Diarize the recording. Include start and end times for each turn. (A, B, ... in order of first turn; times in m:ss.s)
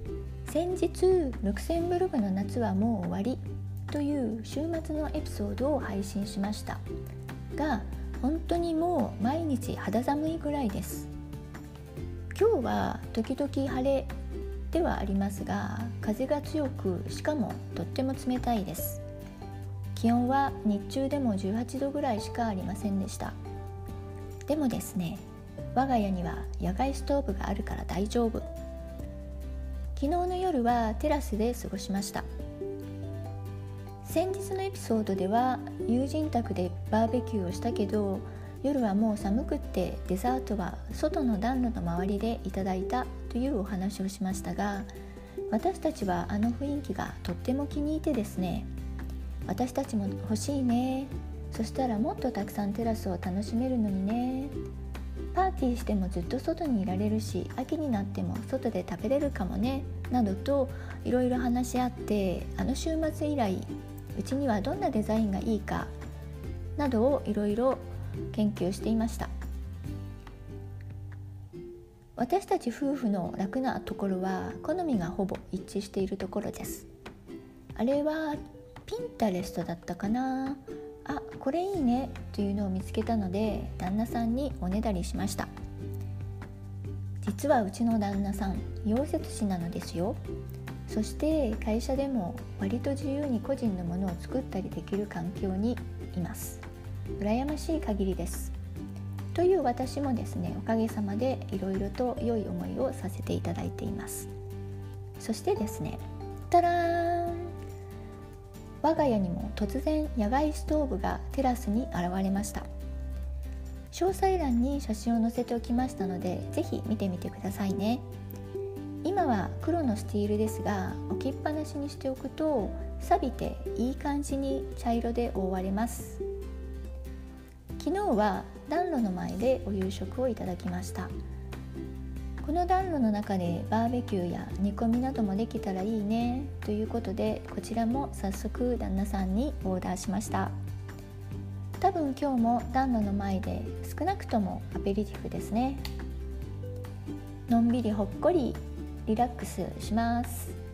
0:00.5-0:06.8 A
0:07.6-0:11.1 A
0:12.3-0:14.1 A
0:14.7-0:19.0 A
0:20.0-0:23.4 A
0:24.5-0:28.5 A
0:30.0-0:32.2 A
0:34.0-0:44.9 A
0:45.5-0:48.7 A
0:49.4-0:54.5 A
0:55.3-1:05.9 A
1:06.8-1:09.3 A
1:12.2-1:16.9 A
1:17.7-1:25.5 A
1:27.2-1:30.2 A
1:30.9-1:36.6 A
1:37.2-1:38.5 A
1:39.3-1:44.3 A
1:45.2-1:47.5 A
1:48.8-1:52.7 A
1:53.9-1:58.0 A
1:59.0-2:06.2 A
2:07.8-2:11.1 A
2:12.4-2:20.5 A
2:21.8-2:25.8 A
2:27.5-2:30.6 A